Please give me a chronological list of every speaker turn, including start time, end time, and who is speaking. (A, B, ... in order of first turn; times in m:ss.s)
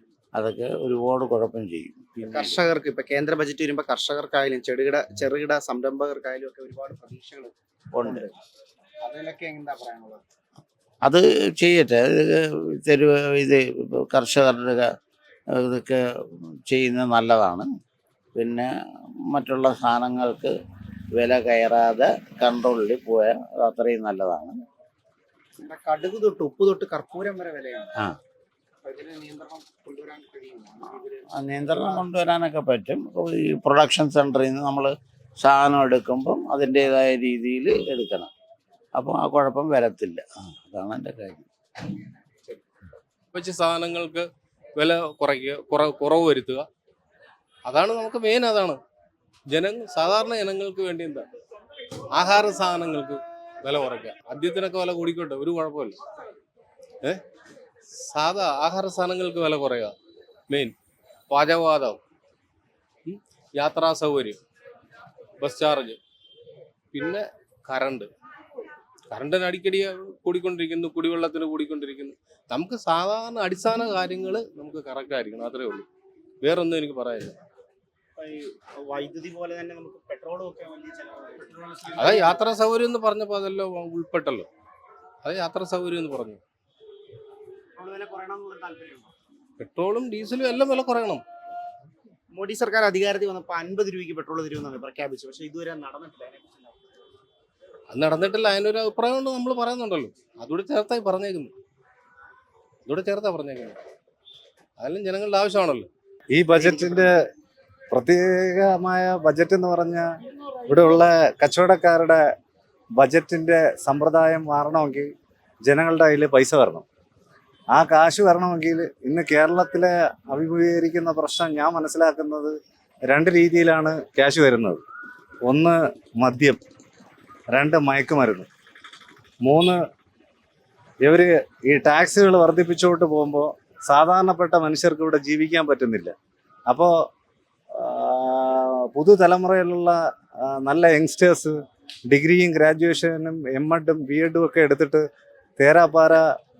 0:00.3-0:02.6 A
0:02.3-0:08.4 B
0:07.9-0:08.3 A
0:09.0-0:10.2 B
0:11.0-0:14.9 A
0:15.6-0:16.0 A
0:16.7-0:17.7 A
0:18.4-0:18.7 A
0:19.3-0:20.5 A
0:21.2-0:24.6 A
0:25.6-0:27.9 B
0:28.8-0:32.1 B
0:31.3-0:38.3 A
0:39.0-0:41.5 A
0:43.5-0:44.1 C
0:44.8-0:46.5 C
0:47.7-0:48.7 C
0:49.6-0:51.2 C
0:52.2-0:53.1 C
0:53.7-0:55.9 C
0:58.2-0:59.9 C
1:01.3-1:01.9 C
1:03.6-1:04.3 C
1:05.4-1:05.9 C
1:07.7-1:08.0 C
1:09.1-1:15.8 C
1:16.5-1:17.3 C
1:18.2-1:22.4 B
1:22.0-1:24.4 C
1:25.3-1:26.4 C
1:27.8-1:29.1 B
1:29.6-1:31.2 C
1:32.3-1:36.8 B
1:38.0-1:41.4 C
1:42.9-1:43.7 C
1:44.8-1:45.8 C
1:46.3-1:47.2 D
1:47.9-1:50.1 D
1:50.7-1:52.2 D
1:53.0-1:55.1 D
1:55.7-1:56.8 D
1:57.7-2:02.5 D
2:03.1-2:04.8 D
2:05.5-2:06.6 D
2:07.5-2:08.5 D
2:09.4-2:09.8 D
2:11.0-2:16.1 D
2:17.8-2:21.6 D
2:22.1-2:25.0 D
2:25.6-2:26.2 D